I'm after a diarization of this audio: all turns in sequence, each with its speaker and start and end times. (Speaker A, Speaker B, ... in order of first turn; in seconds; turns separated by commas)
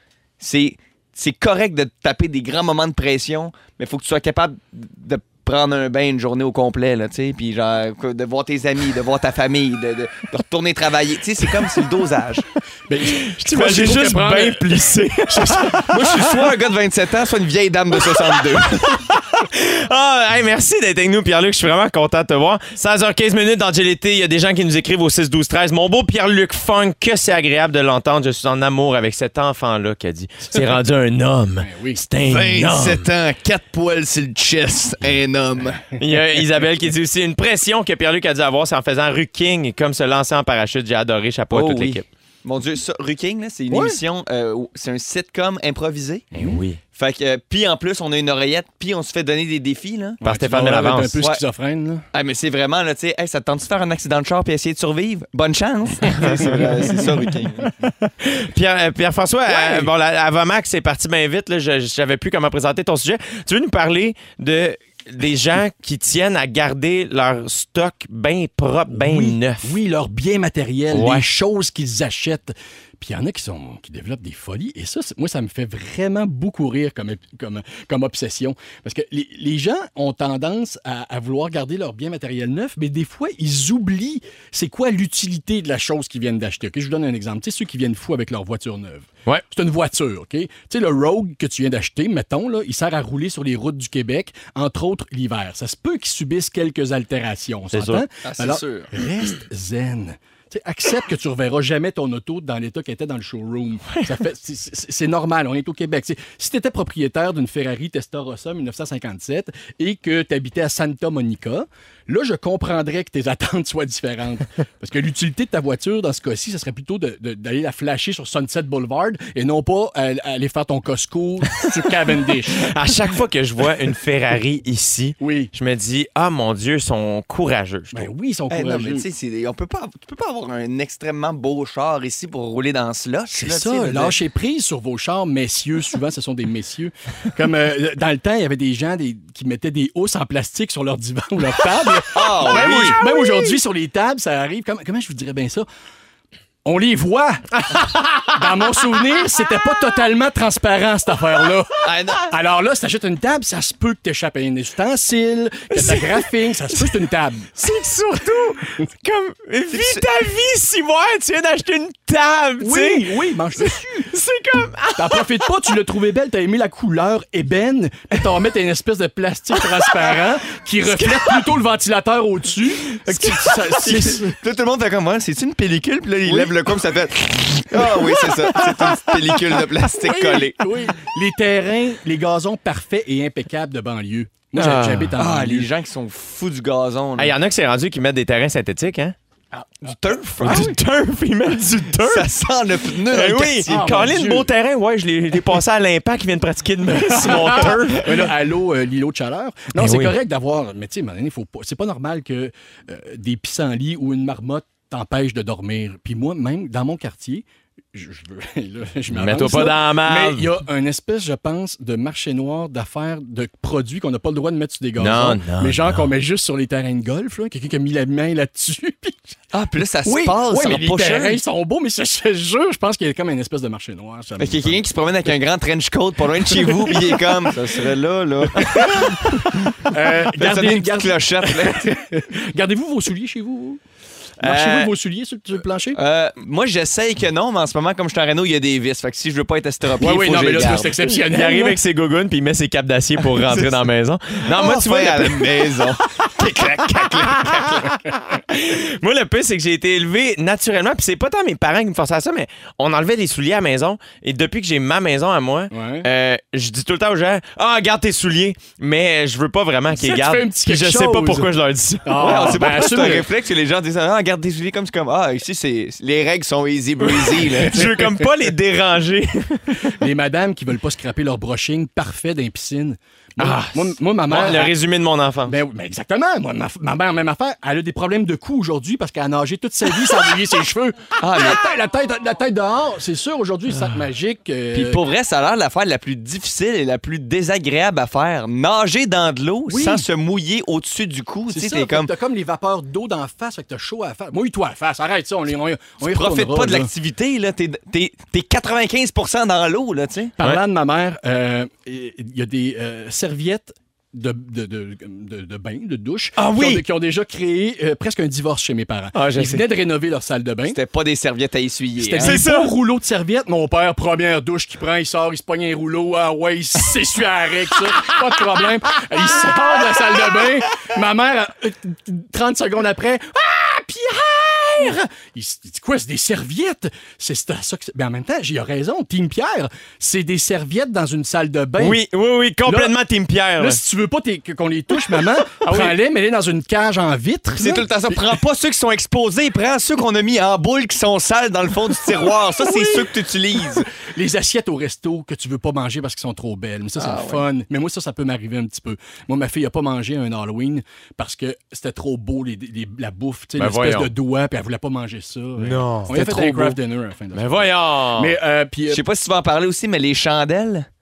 Speaker A: 0.4-12.4, Speaker B: 12.9-16.1, Speaker C: 13.2-15.8, Speaker A: 15.9-19.0, Speaker C: 18.8-33.1, Speaker B: 31.6-32.0, Speaker A: 32.2-35.8, Speaker C: 36.0-42.0, Speaker A: 41.5-46.3, Speaker B: 43.7-44.0, Speaker C: 46.3-46.8, Speaker A: 46.9-50.2, Speaker B: 50.2-52.0, Speaker C: 50.2-51.2, Speaker A: 52.1-57.7, Speaker C: 56.1-56.7, Speaker B: 56.2-56.9, Speaker C: 57.8-69.8, Speaker B: 68.9-122.7, Speaker C: 70.9-71.3, Speaker C: 97.7-98.0, Speaker A: 98.2-98.9, Speaker C: 122.5-128.1, Speaker B: 125.2-125.5, Speaker B: 127.9-129.0, Speaker A: 128.5-134.2, Speaker B: 133.3-145.7, Speaker A: 142.1-143.0, Speaker C: 142.6-143.4, Speaker B: 146.6-157.6, Speaker C: 147.8-148.3, Speaker A: 151.8-152.3, Speaker C: 155.7-156.9, Speaker C: 157.6-165.5, Speaker A: 159.7-160.0, Speaker B: 162.6-164.1, Speaker B: 164.9-174.4, Speaker C: 170.8-171.5, Speaker C: 172.9-173.6, Speaker A: 173.8-180.6, Speaker B: 176.2-176.5, Speaker B: 177.8-178.6, Speaker B: 180.0-185.7, Speaker C: 184.5-185.1, Speaker A: 185.2-187.3, Speaker C: 187.2-189.1, Speaker A: 189.8-190.8, Speaker C: 190.4-192.3, Speaker B: 190.4-190.7, Speaker A: 192.0-193.8, Speaker C: 193.1-198.3, Speaker B: 193.7-194.5, Speaker B: 197.1-219.3, Speaker C: 199.8-200.1, Speaker C: 209.1-210.5, Speaker C: 215.0-216.1, Speaker A: 219.5-221.4, Speaker B: 220.0-224.8, Speaker A: 224.4-229.7, Speaker B: 226.5-227.3, Speaker B: 228.5-233.8, Speaker A: 230.2-232.0, Speaker C: 234.4-234.9, Speaker B: 234.4-236.0, Speaker A: 235.9-240.9, Speaker B: 240.0-241.8, Speaker C: 241.0-262.9, Speaker A: 244.4-247.9, Speaker B: 255.7-256.1, Speaker B: 259.9-261.5, Speaker B: 262.0-263.2, Speaker A: 262.2-268.0, Speaker C: 267.0-269.9, Speaker B: 269.7-274.7, Speaker C: 273.4-275.6, Speaker B: 275.4-285.0, Speaker A: 281.2-281.6, Speaker A: 284.7-292.1, Speaker B: 289.7-290.1, Speaker B: 291.5-296.9, Speaker A: 296.0-300.3, Speaker B: 300.4-310.8, Speaker C: 306.4-306.8, Speaker C: 309.1-309.6, Speaker A: 310.7-312.4, Speaker B: 312.0-332.0, Speaker C: 312.2-312.7, Speaker C: 331.8-333.8, Speaker B: 332.6-333.0, Speaker B: 333.6-338.3, Speaker C: 335.6-335.9, Speaker A: 337.6-343.9, Speaker B: 342.6-343.1, Speaker B: 344.1-359.0, Speaker A: 347.0-347.4, Speaker C: 353.6-354.1, Speaker C: 355.6-356.8, Speaker C: 357.3-358.4, Speaker A: 358.9-360.9